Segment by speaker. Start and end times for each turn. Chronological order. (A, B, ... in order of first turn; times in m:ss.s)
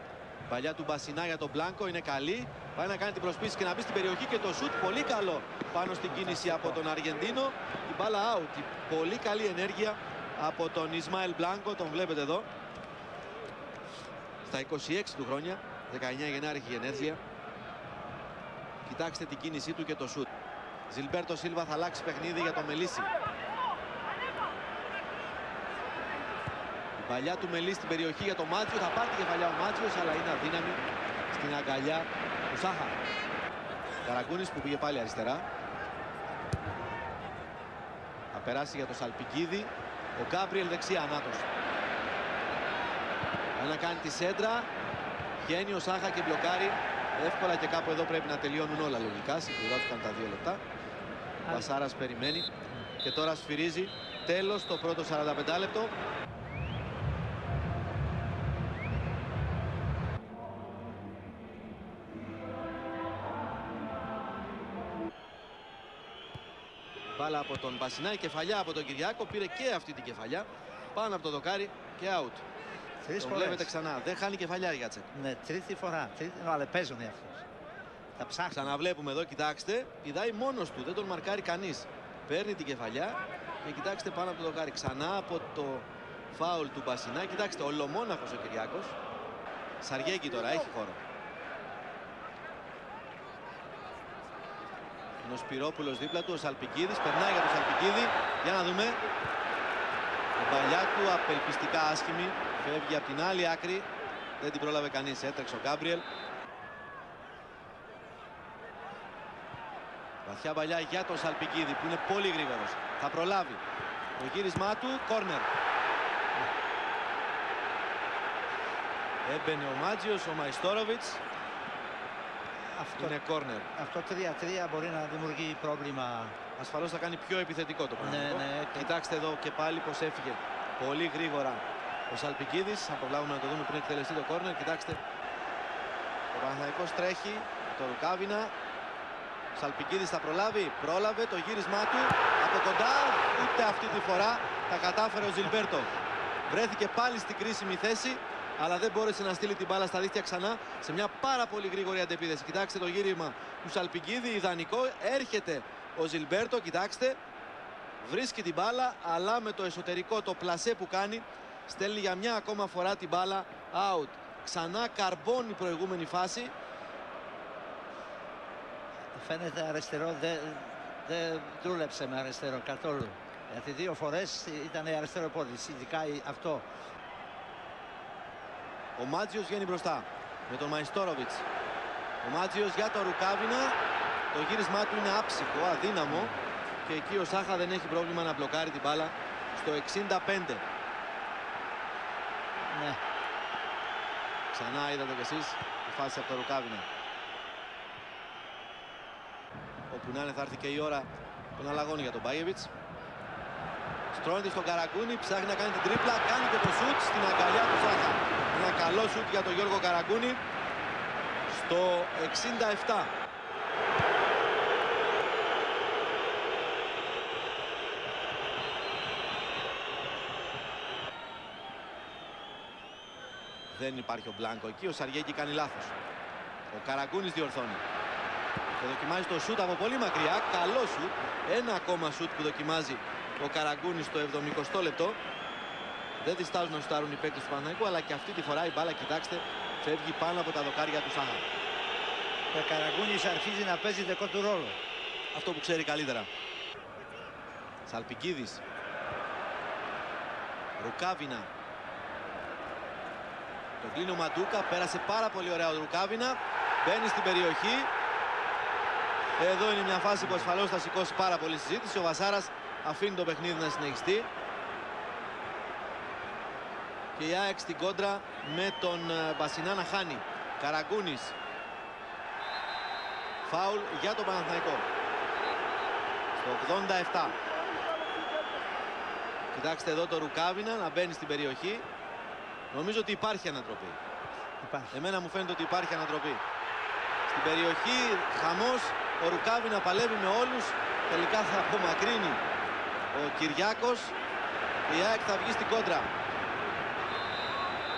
0:00.5-0:12.5 A
0:06.0-0:06.8 B
0:14.4-0:17.2 A
0:18.8-0:20.3 A
0:20.9-0:23.1 A
0:27.0-0:33.0 A
0:34.0-0:35.4 A
0:38.3-0:41.5 A
0:43.6-0:44.7 A
0:45.4-0:50.6 A
0:51.4-0:51.7 B
0:51.5-0:52.5 A
0:53.0-0:55.9 A
1:07.2-1:12.4 A
1:13.0-1:13.7 B
1:13.2-1:15.1 A
1:15.1-1:17.4 B
1:18.2-1:18.7 B
1:18.5-1:28.9 A
1:29.8-1:31.0 A
1:35.2-1:39.0 A
1:40.4-1:43.9 A
1:44.4-1:46.1 A
1:50.2-1:53.6 A
1:54.2-1:55.5 A
1:59.2-2:01.2 A
2:02.7-2:03.2 B
2:03.0-2:03.7 A
2:03.7-2:06.4 B
2:06.6-2:15.0 A
2:08.0-2:08.9 B
2:16.3-2:18.5 A
2:19.6-2:25.9 A
2:26.5-2:37.2 A
2:38.0-2:46.5 A
2:49.1-2:56.6 B
2:59.0-3:01.4 A
3:02.2-3:03.8 A
3:04.3-3:06.3 A
3:06.8-3:10.6 A
3:12.7-3:13.0 B
3:14.5-3:16.9 A
3:19.9-3:22.7 A
3:24.1-3:30.4 A
3:31.5-3:33.1 A
3:43.7-3:45.9 A
3:46.7-3:47.8 A
3:48.8-3:55.2 A
3:56.2-4:01.4 A
4:02.5-4:04.8 B
4:05.3-4:06.3 A
4:07.8-4:08.6 A
4:10.8-4:11.5 A
4:13.8-4:17.9 A
4:19.4-4:24.3 A
4:27.2-4:31.3 A
4:33.4-4:34.8 A
4:36.4-4:37.4 A
4:39.5-4:41.8 A
4:42.7-4:44.0 A
4:44.6-4:45.0 B
4:44.9-4:46.4 A
4:47.3-4:52.4 A
4:53.1-4:54.2 A
4:54.9-4:56.1 A